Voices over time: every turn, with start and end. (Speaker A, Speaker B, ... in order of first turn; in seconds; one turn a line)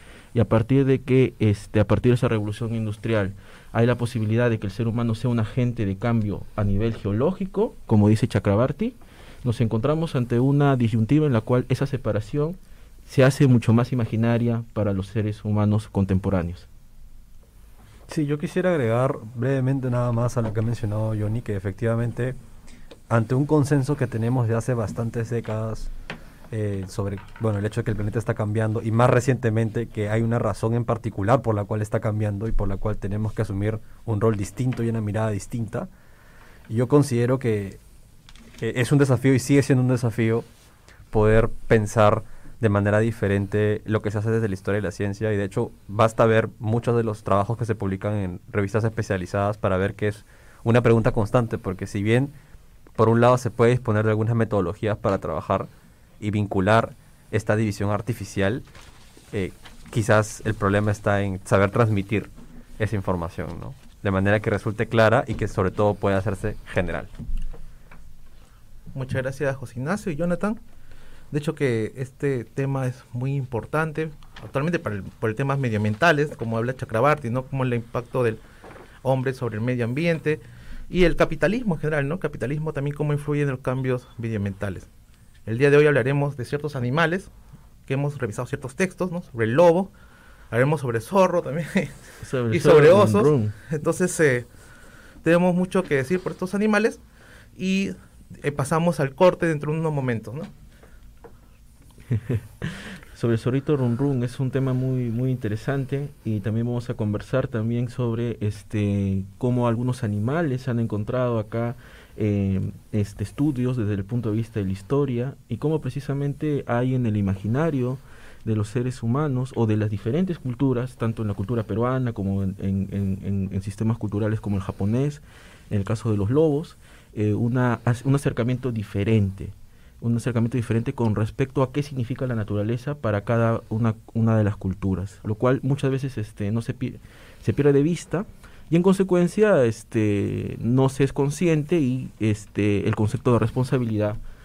Speaker A: 0.3-16.7
Speaker B: 18.1-22.4
Speaker B: 23.1-25.9
Speaker B: 26.5-35.9
Speaker B: 36.7-37.8
Speaker B: 38.6-40.5
Speaker B: 41.1-52.3
Speaker B: 53.0-58.6
Speaker B: 59.3-67.1
Speaker C: 68.9-70.6
Speaker C: 71.3-78.4
Speaker C: 79.0-84.9
Speaker C: 85.5-87.3
Speaker C: 87.9-89.9
Speaker C: 90.5-92.0
Speaker A: 92.2-93.5
Speaker C: 92.5-94.5
Speaker C: 95.2-97.0
Speaker C: 97.5-100.5
Speaker A: 102.1-144.2